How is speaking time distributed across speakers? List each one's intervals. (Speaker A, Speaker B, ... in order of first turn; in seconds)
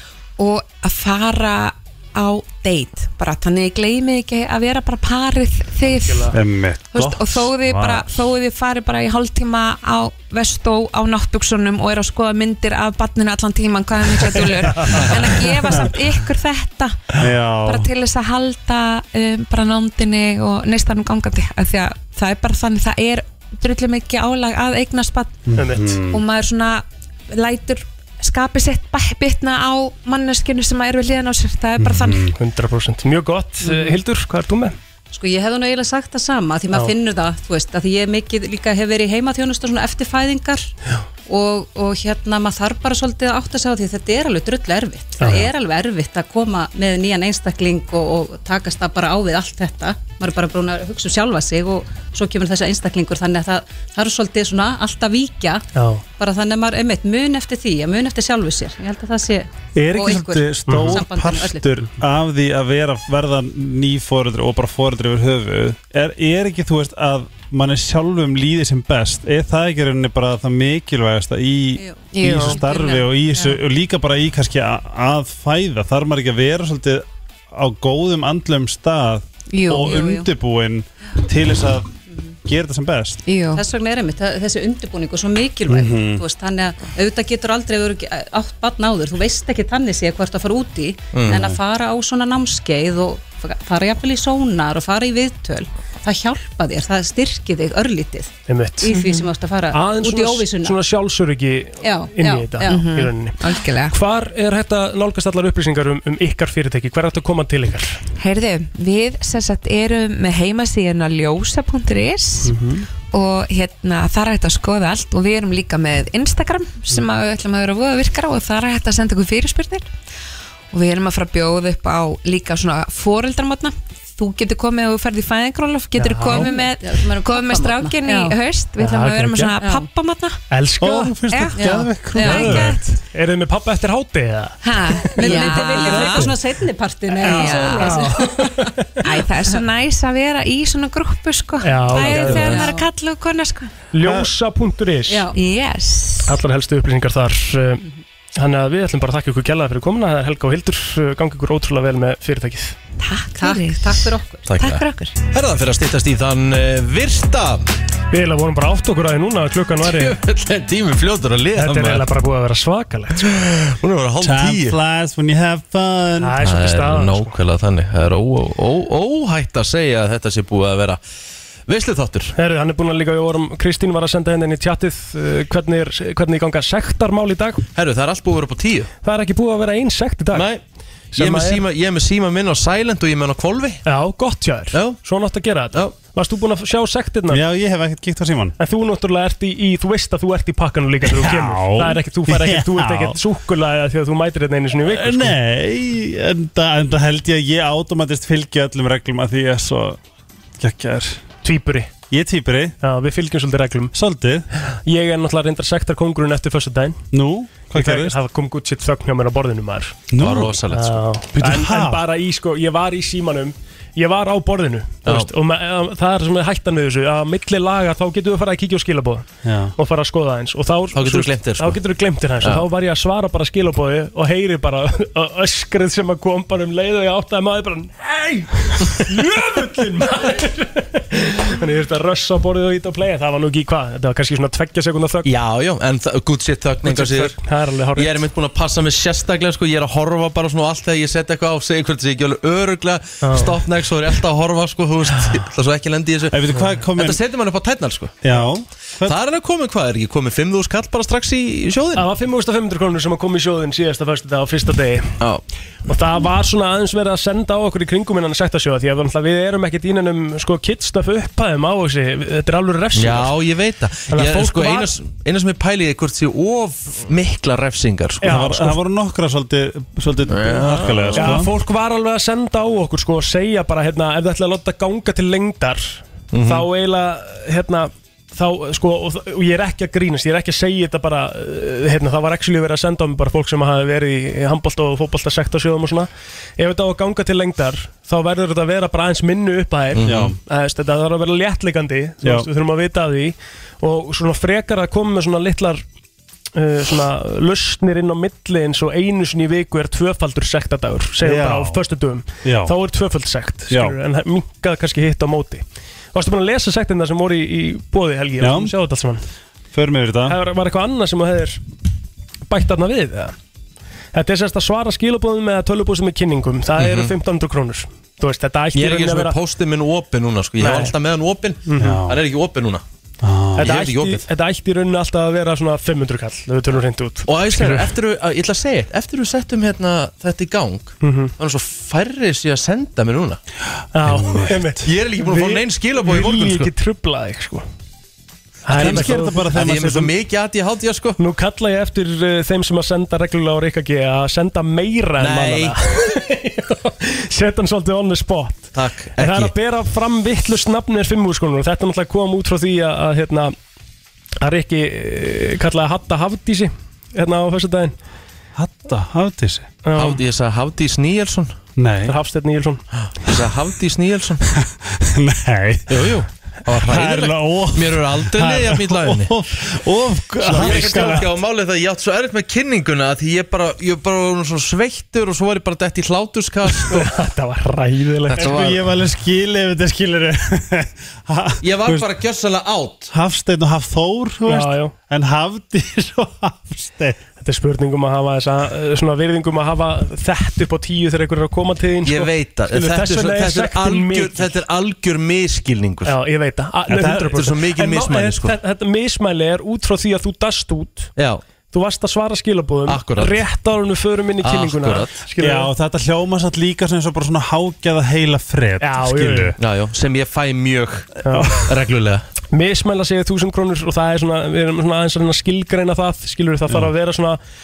Speaker A: 0.4-6.3, 6.9-25.4, 26.1-32.3, 72.1-72.6, 79.5-80.0, 83.2-83.6, 98.9-99.3, 102.7-103.9, 108.2-119.9, 120.7-130.4, 131.3-132.9, 134.6-136.3, 137.2-138.1, 139.1-143.7, 145.3-146.3, 153.0-155.1
Speaker B: 6.1-6.3, 25.6-25.9, 32.4-34.8, 45.2-45.5, 55.7-56.0, 60.7-61.0, 72.2-72.6, 98.5-98.9, 99.7-108.0, 112.4-112.8, 126.0-126.5, 128.8-129.6, 130.5-131.2, 132.1-136.4, 137.2-139.0, 141.6-142.8, 143.9-145.3, 146.2-147.8, 148.3-152.7, 158.1-160.2, 161.5-163.4, 166.2-167.3, 172.3-177.6, 179.0-180.5, 181.1-181.6, 183.8-187.4, 188.6-195.4, 201.4-201.9, 202.8-203.9, 204.7-207.0, 207.7-210.0, 210.7-235.3, 236.8-238.3, 243.2-243.6, 251.9-255.2, 255.8-263.4, 264.1-264.9, 268.2-268.8, 271.1-295.8, 296.5-309.2, 310.3-311.6, 312.5-313.3, 314.1-319.4, 320.6-320.9, 321.6-322.0, 323.6-327.9, 331.0-331.3, 333.9-337.6, 338.6-339.7, 341.2-353.5, 354.4-357.9, 359.8-360.2, 362.1-362.8, 370.4-371.3, 376.9-378.8, 384.4-384.9, 387.4-394.6, 396.0-401.1, 401.7-405.7, 408.8-409.5, 411.2-411.6, 412.5-417.4
Speaker C: 6.3-8.3, 14.7-15.9, 17.1-17.9, 25.4-26.2, 31.8-32.3, 59.7-81.9, 82.4-83.2, 85.7-86.2, 91.2-91.6, 130.8-132.8, 144.0-144.3, 164.2-166.4, 187.3-188.5, 191.0-193.2, 194.8-200.0, 200.6-201.2, 202.1-202.8, 203.9-204.5, 207.1-208.1, 210.1-210.6, 211.3-212.0, 219.4-219.7, 246.3-247.2, 248.2-249.2, 268.2-271.5, 290.0-290.4, 292.2-292.5, 301.2-301.8, 302.4-302.7, 303.7-303.9, 308.4-308.7, 309.7-310.4, 321.8-322.2, 323.2-323.7, 334.0-334.9, 338.7-340.1, 358.5-359.7, 361.8-362.1, 364.4-371.3, 378.4-382.1, 383.1-387.2, 396.9-397.2, 405.4-409.6, 411.2-411.7
Speaker D: 33.6-34.0, 35.1-40.7, 41.2-55.6, 56.2-61.7, 71.8-73.6, 79.8-80.3, 83.5-100.8, 101.8-102.9, 126.2-128.4, 129.6-129.9, 131.6-131.9, 135.1-138.7, 142.1-142.9, 145.1-145.4, 153.3-154.5
Speaker E: 91.1-91.5, 154.4-157.7, 159.8-162.1, 163.2-164.8, 166.4-171.0, 171.7-172.3, 177.7-178.9, 180.3-180.6, 181.1-183.8, 184.7-185.0, 210.2-211.0, 215.0-215.3, 220.9-221.8, 222.4-222.7, 235.2-237.4, 237.9-248.4, 249.0-252.1, 262.9-268.4, 270.3-271.4, 276.3-276.6, 289.9-290.4, 316.8-317.1, 318.7-322.8, 323.5-324.2, 327.2-333.4, 334.8-336.7, 338.7-341.2, 345.2-345.8, 348.7-349.5, 359.9-361.5, 363.1-364.4, 365.9-369.3, 370.4-377.1, 378.3-378.8, 381.6-383.1, 392.0-396.1, 397.1-398.6, 401.1-401.4, 402.9-403.4, 404.4-405.2, 409.6-411.1, 411.6-412.2